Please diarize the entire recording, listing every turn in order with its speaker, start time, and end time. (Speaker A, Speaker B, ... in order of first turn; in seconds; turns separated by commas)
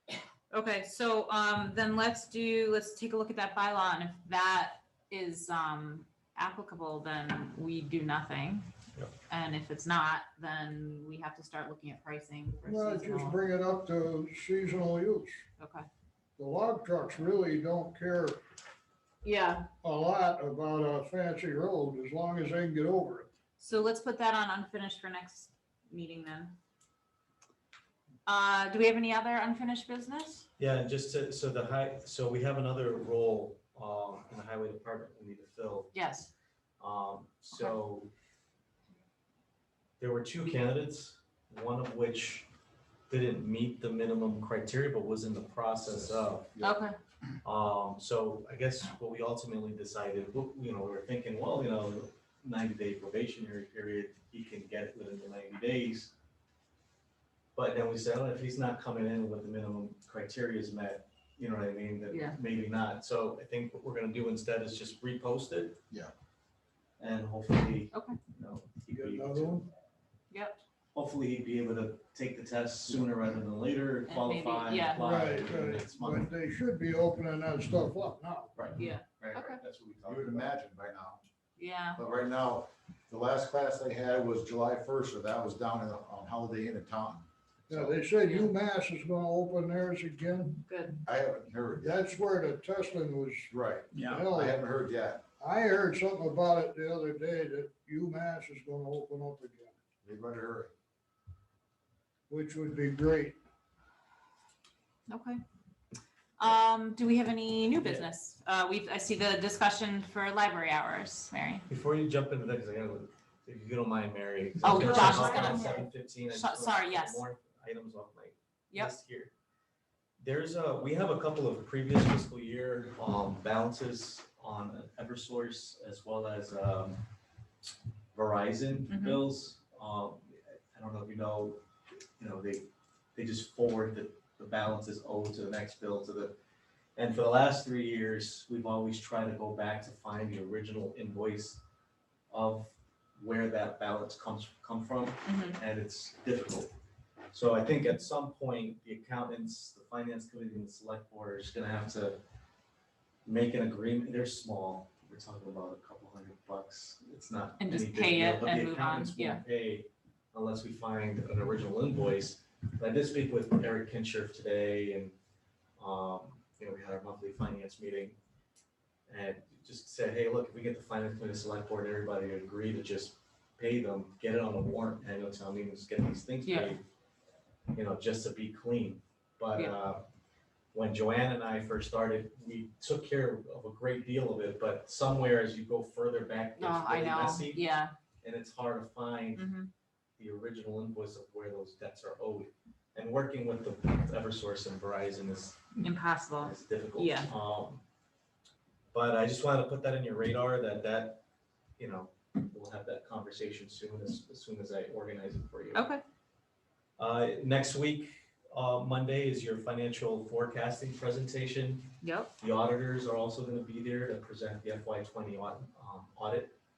Speaker A: 0.5-8.7, Speaker A: 9.3-13.4, Speaker B: 12.7-15.4, Speaker A: 15.6-15.9, Speaker B: 16.4-18.4, Speaker A: 19.2-19.7, Speaker B: 19.8-23.3, Speaker A: 23.6-26.6, Speaker A: 28.3-30.5, Speaker C: 30.6-35.9, Speaker A: 35.9-36.3, Speaker C: 36.8-38.1, Speaker A: 37.5-37.8, Speaker C: 40.0-42.5, Speaker C: 43.1-46.5, Speaker A: 46.6-47.0, Speaker C: 47.4-56.1, Speaker C: 57.5-65.8, Speaker A: 62.1-62.4, Speaker C: 67.0-69.7, Speaker A: 67.9-68.2, Speaker B: 68.9-69.6, Speaker A: 70.3-70.6, Speaker C: 70.9-76.3, Speaker A: 74.1-75.0, Speaker B: 75.0-78.5, Speaker A: 78.8-79.6, Speaker C: 79.2-80.5, Speaker D: 80.0-81.3, Speaker A: 81.6-82.0, Speaker D: 82.0-88.0, Speaker B: 87.7-90.6, Speaker A: 88.2-88.5, Speaker A: 90.7-91.0, Speaker D: 91.1-92.0, Speaker B: 91.8-93.5, Speaker D: 93.5-95.2, Speaker B: 94.0-94.6, Speaker B: 95.4-99.8, Speaker D: 100.0-100.7, Speaker B: 102.3-103.4, Speaker A: 105.1-105.4, Speaker A: 106.4-111.7, Speaker C: 107.8-108.1, Speaker C: 111.7-119.3, Speaker A: 114.6-117.2, Speaker C: 120.2-127.0, Speaker C: 128.1-131.6, Speaker A: 128.9-129.2, Speaker C: 132.2-136.3, Speaker C: 137.0-141.6, Speaker C: 142.3-146.7, Speaker A: 145.2-145.6, Speaker C: 147.3-152.2, Speaker C: 153.2-165.2, Speaker A: 157.6-159.4, Speaker C: 165.8-168.2, Speaker C: 169.1-176.8, Speaker A: 176.4-176.8, Speaker C: 177.7-180.1, Speaker C: 180.7-187.6, Speaker A: 186.6-187.9, Speaker C: 188.2-189.5, Speaker A: 189.3-189.7, Speaker C: 190.2-195.7, Speaker A: 195.8-197.3, Speaker C: 196.4-197.8, Speaker C: 198.9-201.2, Speaker C: 201.8-205.9, Speaker A: 205.7-206.0, Speaker C: 207.0-216.6, Speaker A: 212.0-212.3